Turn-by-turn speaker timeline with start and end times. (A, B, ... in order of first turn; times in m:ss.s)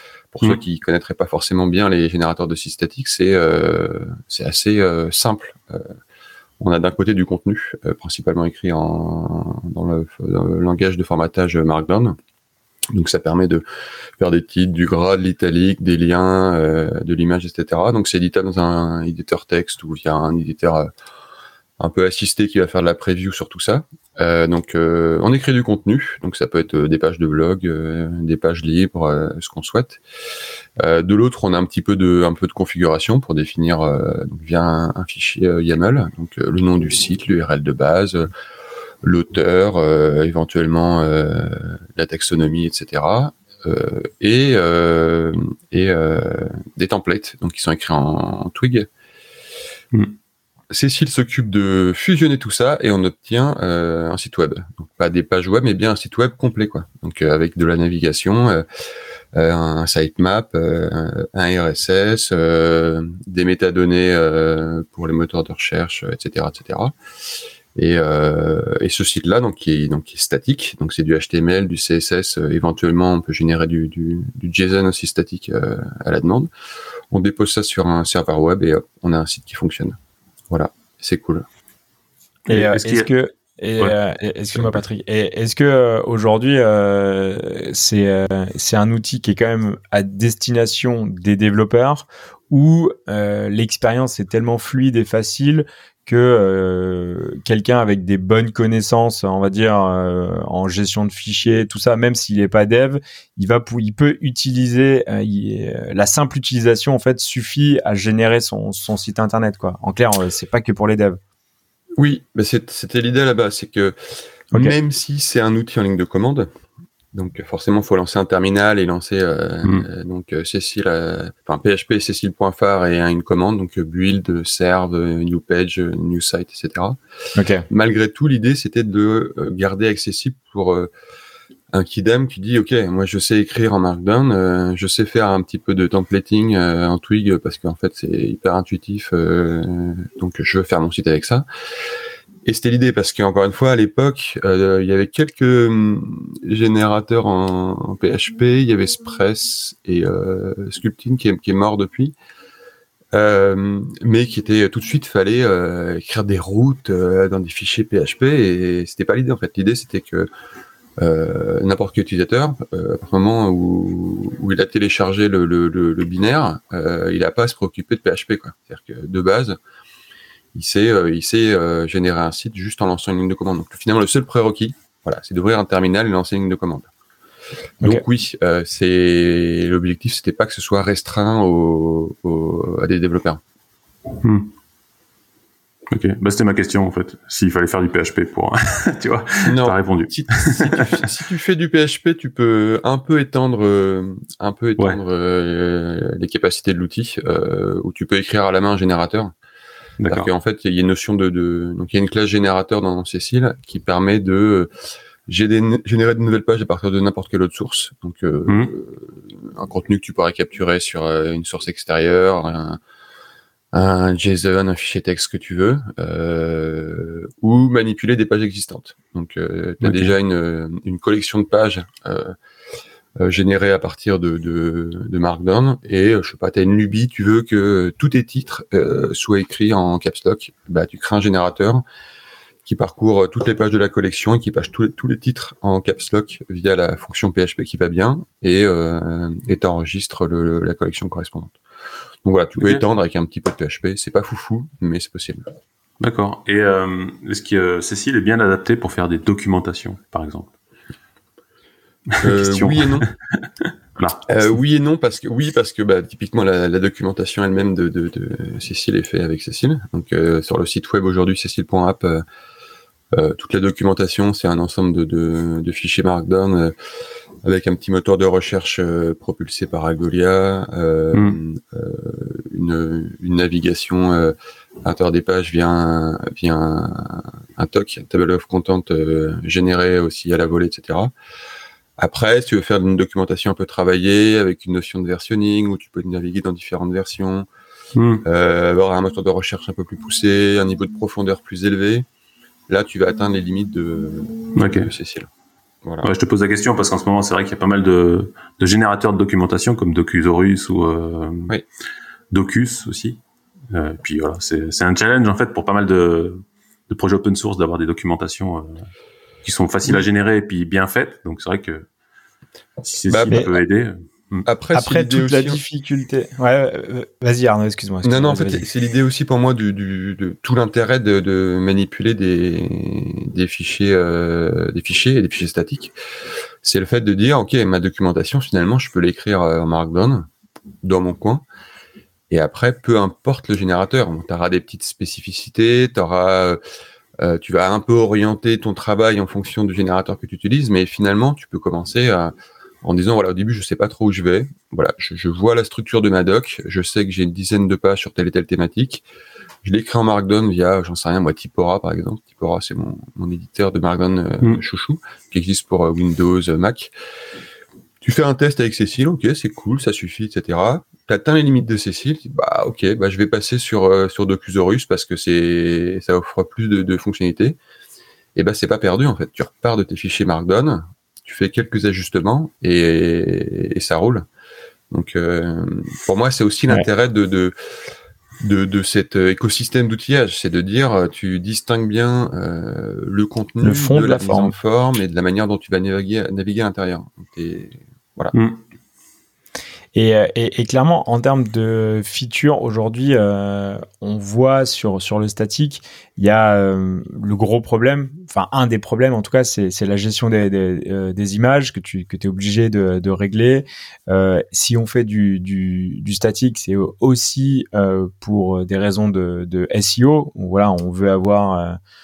0:00.3-0:05.9 A
0:06.6-0:12.2 A
0:12.9-0:13.6 A
0:14.2-0:20.9 A
0:21.8-0:30.0 A
0:30.8-0:38.3 A
0:39.0-0:48.9 A
0:50.7-0:58.6 A
0:59.3-1:06.9 A
1:07.8-1:16.5 A
1:17.1-1:20.0 A
1:20.5-1:21.4 A
1:22.5-1:23.1 B
1:22.5-1:51.2 C
1:24.5-1:24.8 B
1:52.0-1:54.0 A
1:54.5-1:56.5 A
1:57.1-2:07.0 A
2:07.3-2:07.6 C
2:07.7-2:10.9 A
2:11.7-2:21.4 A
2:22.4-2:32.1 A
2:33.1-2:40.3 A
2:41.0-2:49.6 A
2:50.5-2:56.9 A
2:57.8-3:03.4 A
3:04.2-3:04.5 B
3:05.9-3:11.0 B
3:09.4-3:19.3 A
3:20.0-3:20.3 B
3:20.1-3:24.7 A
3:25.3-3:32.8 A
3:33.7-3:42.4 A
3:39.8-3:40.2 B
3:43.2-3:51.8 A
3:52.6-4:01.6 A
4:02.2-4:05.4 A
4:02.6-4:02.8 B
4:06.0-4:10.5 B
4:12.1-4:13.1 B
4:12.2-4:13.1 A
4:14.0-4:14.2 B
4:14.3-4:22.2 A
4:23.1-4:26.7 A
4:27.4-4:41.1 A
4:31.1-4:31.4 B
4:42.0-4:47.5 A
4:47.9-4:48.2 B
4:48.2-4:52.1 A
4:52.7-4:55.3 A
4:54.5-4:54.9 B
4:55.8-4:56.1 A
4:56.0-5:01.5 B
5:02.3-5:03.2 B
5:03.7-5:08.9 B
5:09.4-5:11.9 B
5:12.8-5:14.5 B
5:13.1-5:13.5 A
5:14.4-5:15.6 A
5:14.7-5:18.6 C
5:18.0-5:25.9 A
5:26.6-5:30.3 A
5:30.8-5:31.4 A
5:32.3-5:36.6 A
5:37.2-5:49.0 A
5:49.6-5:56.9 A
5:58.0-6:07.6 A
6:08.3-6:14.3 A
6:14.9-6:17.5 A
6:18.4-6:28.3 A
6:23.6-6:24.6 C
6:28.3-6:28.6 B
6:29.9-6:51.8 C